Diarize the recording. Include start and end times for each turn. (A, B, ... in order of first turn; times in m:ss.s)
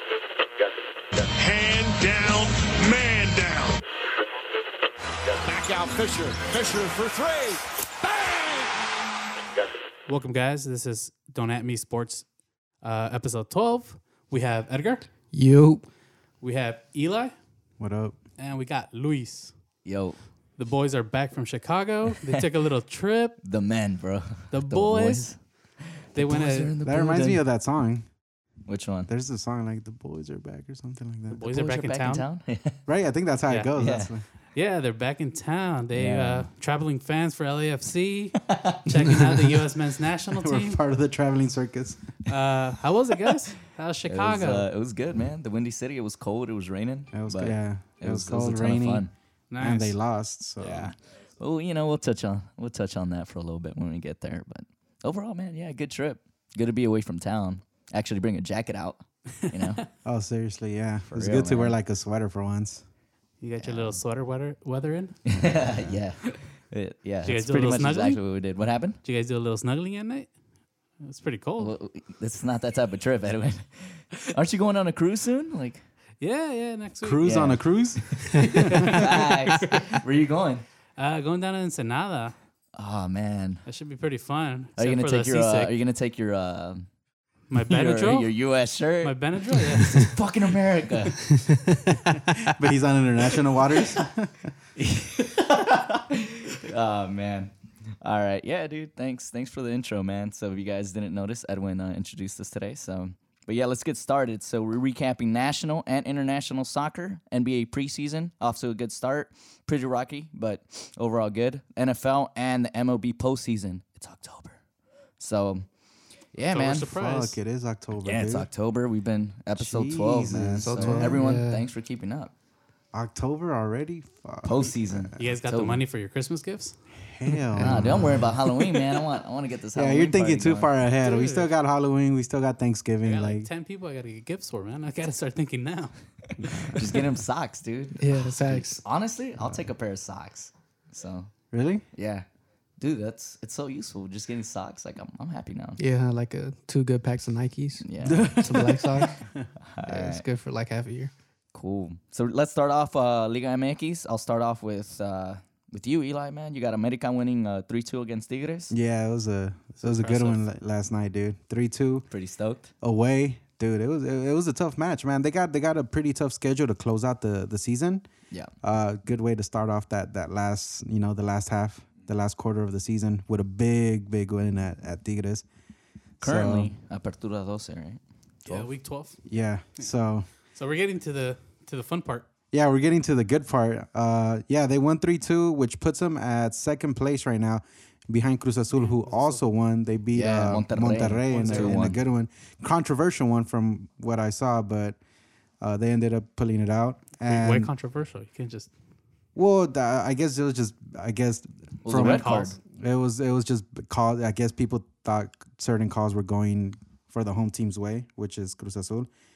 0:01.2-0:03.8 A
0:05.3-0:08.7 A
0:10.1-0:12.3 B
0:12.8-0:15.1 B
0:15.3-0:15.8 C
0:16.4-0:17.3 B
0:17.8-0:18.2 D
0:18.4-0:19.5 B
0:19.8-0:20.2 E
0:20.6-0:23.4 B
0:23.4-0:25.4 E
0:24.5-0:25.3 B
0:26.0-0:27.4 E
0:26.1-0:26.7 B
0:26.8-0:28.0 D
0:28.6-0:29.1 E
0:29.1-0:31.4 D
0:31.3-0:32.2 B
0:31.4-0:32.8 E
0:32.9-0:34.2 D
0:33.8-0:34.1 E
0:34.5-0:40.8 B
0:35.9-0:36.4 E
0:38.5-0:38.8 E
0:40.3-0:42.1 D
0:42.2-0:44.7 B
0:44.1-0:49.1 E
0:47.1-0:49.1 D
0:49.5-0:50.0 B
0:49.6-0:50.9 D
0:50.6-0:59.8 E
0:59.4-0:59.8 B
1:00.0-1:02.8 D
1:01.1-1:01.8 E
1:03.4-1:05.4 B
1:03.6-1:04.0 E
1:05.2-1:09.0 E
1:07.2-1:08.2 B
1:09.0-1:10.3 B
1:11.0-1:11.7 B
1:11.6-1:15.8 E
1:16.2-1:17.4 B
1:17.0-1:18.7 D
1:17.2-1:20.6 E
1:18.6-1:19.8 B
1:21.0-1:22.3 B
1:22.7-1:23.6 E
1:23.6-1:25.7 B
1:24.8-1:26.8 E
1:27.5-1:28.3 B
1:27.6-1:31.3 E
1:29.0-1:30.2 B
1:32.6-1:34.5 D
1:34.8-1:54.6 E
1:55.2-1:55.6 E
1:56.3-1:56.9 E
1:56.4-1:57.4 B
1:56.9-1:58.5 D
1:58.0-2:02.3 E
1:59.6-2:01.2 D
2:00.6-2:01.6 C
2:02.9-2:05.3 D
2:04.4-2:05.8 E
2:05.2-2:06.8 B
2:07.0-2:08.5 D
2:07.5-2:08.2 C
2:07.6-2:10.7 E
2:09.7-2:13.5 D
2:11.0-2:11.5 B
2:13.0-2:15.9 B
2:16.4-2:16.9 D
2:16.6-2:21.3 E
2:18.0-2:18.8 C
2:21.5-2:21.8 D
2:21.9-2:22.2 E
2:22.8-2:25.8 E
2:25.8-2:29.2 C
2:27.8-2:29.2 E
2:28.0-2:29.4 D
2:29.7-2:30.2 E
2:29.8-2:31.1 C
2:31.5-2:38.7 E
2:38.7-2:42.1 D
2:39.8-2:40.4 B
2:42.1-2:42.7 E
2:42.8-2:48.0 D
2:48.6-2:55.4 D
2:56.2-2:56.7 D
2:56.2-2:58.7 E
2:58.4-2:59.2 B
2:59.3-3:00.3 D
3:00.5-3:02.3 B
3:02.5-3:15.0 D
3:08.7-3:09.4 B
3:10.1-3:12.0 E
3:11.3-3:11.8 B
3:15.6-3:17.7 D
3:17.2-3:18.7 B
3:19.4-3:29.1 D
3:21.8-3:22.6 E
3:21.9-3:22.6 B